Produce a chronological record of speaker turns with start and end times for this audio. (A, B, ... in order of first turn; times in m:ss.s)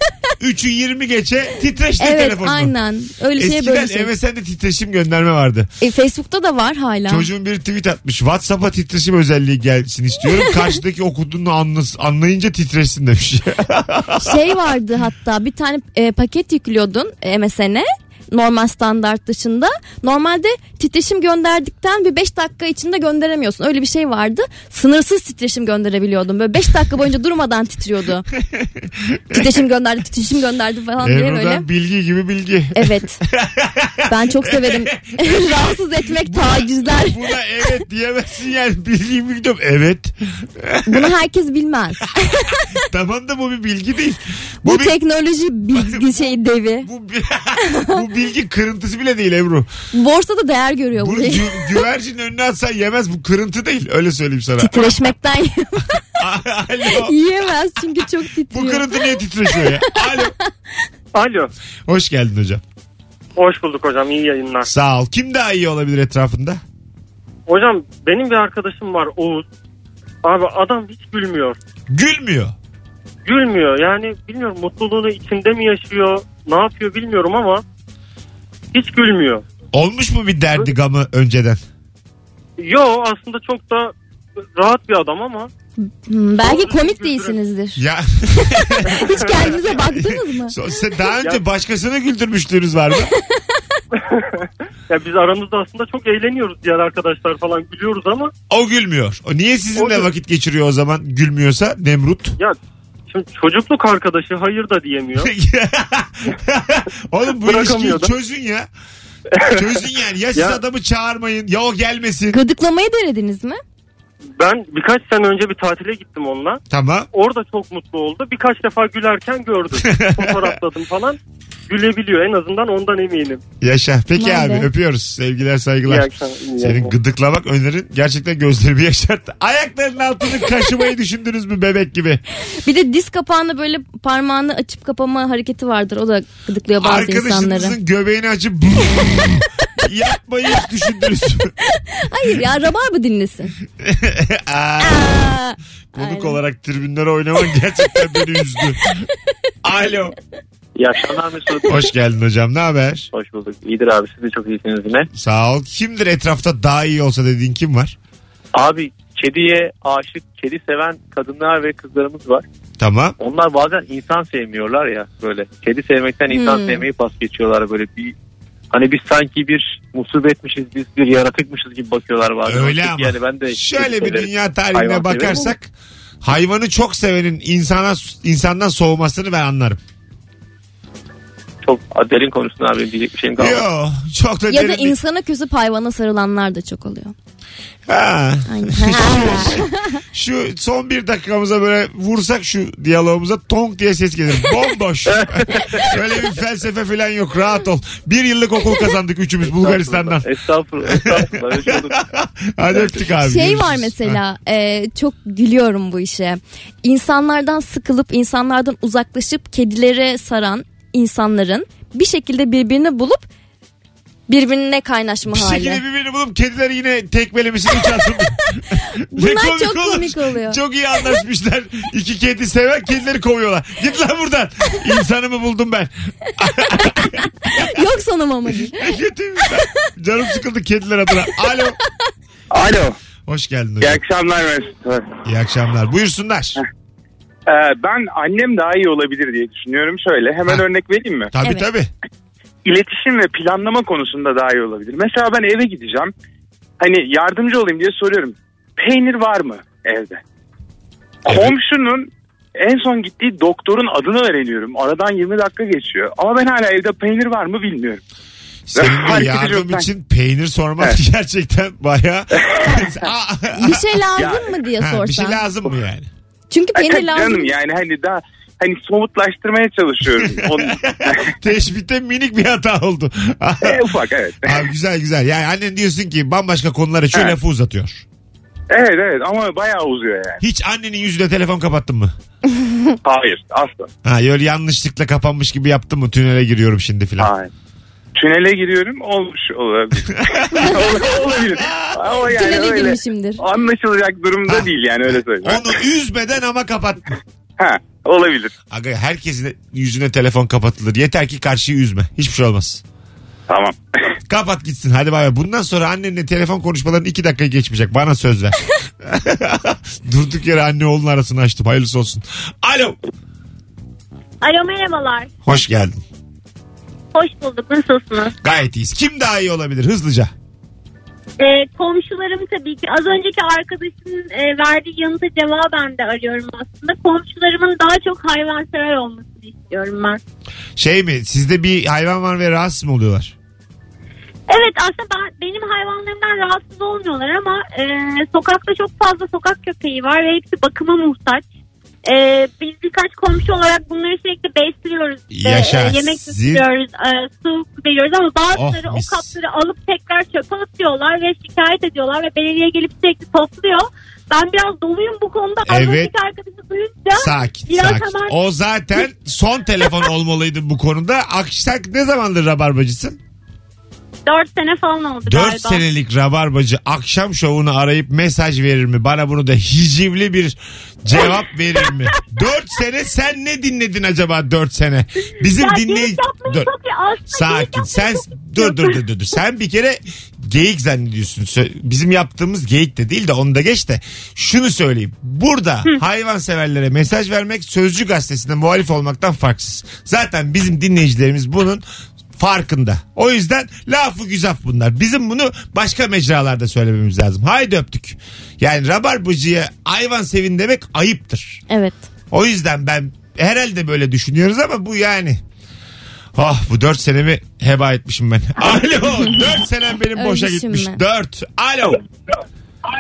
0:00.4-0:02.8 A
0:02.0-0:04.1 B
0:03.4-0:05.7 A
0:05.8-0:07.3 B
0:07.1-0:14.4 A
0:14.2-0:28.3 B
0:28.4-0:29.5 A
0:29.3-0:31.7 B
0:31.0-0:41.1 A
0:32.8-0:33.2 B
0:34.1-0:37.2 B
0:40.9-0:42.6 B
0:42.9-0:45.0 A
0:44.6-0:46.9 B
0:45.8-0:46.1 A
0:46.8-0:49.7 A
0:47.6-0:48.0 B
0:49.9-0:51.8 B
0:51.0-0:55.0 A
0:54.6-0:56.0 B
0:56.2-0:57.2 A
0:56.9-1:00.4 B
0:58.5-1:00.3 A
1:01.1-1:01.5 C
1:01.9-1:02.6 A
1:03.4-1:04.7 C
1:04.6-1:06.6 A
1:07.5-1:09.5 C
1:10.2-1:11.6 C
1:11.9-1:12.6 A
1:13.2-1:17.6 C
1:18.7-1:19.4 C
1:19.7-1:21.6 A
1:22.6-1:25.5 C
1:25.8-1:27.8 B
1:26.4-1:27.4 C
1:27.8-1:33.1 A
1:28.8-1:30.6 B
1:34.9-1:38.3 C
1:38.5-1:42.4 A
1:39.8-1:40.1 C
1:43.1-1:45.3 C
1:45.2-1:48.7 A
1:47.4-1:48.1 C
1:49.5-1:52.4 A
1:52.3-1:53.6 B
1:54.4-1:56.6 C
1:56.7-1:57.1 A
1:57.1-2:03.4 C
1:59.8-2:00.5 A
2:03.6-2:06.1 A
2:04.2-2:04.7 B
2:05.9-2:06.8 C
2:06.6-2:12.2 A
2:12.6-2:17.8 B
2:16.8-2:21.5 A
2:22.0-2:23.6 B
2:23.8-2:25.3 A
2:24.8-2:26.4 B
2:26.0-2:29.0 A
2:29.6-2:30.2 A
2:30.8-2:31.8 D
2:31.7-2:33.1 A
2:33.1-2:35.1 D
2:35.1-2:38.0 A
2:38.5-2:42.4 D
2:42.8-2:43.2 A
2:43.2-2:48.1 D
2:46.3-2:46.8 B
2:48.7-2:55.5 D
2:52.4-2:55.7 A
2:56.2-2:59.8 A
3:01.6-3:03.6 D
3:03.4-3:05.0 A
3:04.5-3:07.2 B
3:07.9-3:20.3 A
3:08.5-3:10.0 B
3:19.5-3:22.0 D
3:20.8-3:24.2 A
3:23.2-3:33.3 B
3:34.3-3:35.8 B
3:35.3-3:47.7 A
3:39.1-3:40.6 B
3:47.5-3:48.9 B
3:48.7-3:51.8 A
3:52.5-3:53.0 E
3:53.3-3:54.0 A
3:53.8-3:55.1 E
3:55.2-3:56.6 A
3:57.5-4:01.3 E
4:01.3-4:01.9 A
4:02.6-4:06.1 E
4:06.8-4:10.2 E
4:11.2-4:18.0 E
4:11.3-4:11.6 A
4:18.7-4:24.0 A
4:18.8-4:19.9 E
4:23.5-4:25.4 B
4:24.2-4:24.5 E
4:24.8-4:26.1 A
4:26.5-4:27.5 B
4:26.8-4:31.3 E
4:30.2-4:38.0 A
4:33.6-4:34.6 E
4:38.7-4:40.4 E
4:40.4-4:42.1 A
4:43.0-4:43.9 E
4:44.0-4:47.3 A
4:47.2-4:47.5 E
4:48.2-4:55.8 E
4:50.2-4:51.0 A
4:51.5-4:52.0 A
4:52.2-4:53.4 B
4:54.5-4:54.7 A
4:55.4-4:57.2 A
4:57.6-4:58.5 E
4:58.7-5:02.8 A
5:03.5-5:03.8 E
5:04.3-5:13.0 A
5:14.4-5:15.3 F
5:15.4-5:16.0 A
5:17.1-5:18.4 F
5:18.4-5:20.3 A
5:21.4-5:30.2 F
5:30.8-5:33.3 A
5:34.5-5:41.4 F
5:42.0-5:58.4 F
5:45.3-5:46.6 A
5:48.6-5:49.3 A
5:55.7-5:56.1 A
5:57.2-6:03.2 A
6:04.3-6:05.8 F
6:05.2-6:16.7 A
6:11.2-6:12.6 F
6:15.4-6:19.0 F
6:17.3-6:31.8 A
6:32.4-6:41.6 A
6:41.7-6:42.0 B
6:42.3-6:45.4 A
6:46.4-6:52.0 A
6:50.2-6:51.0 B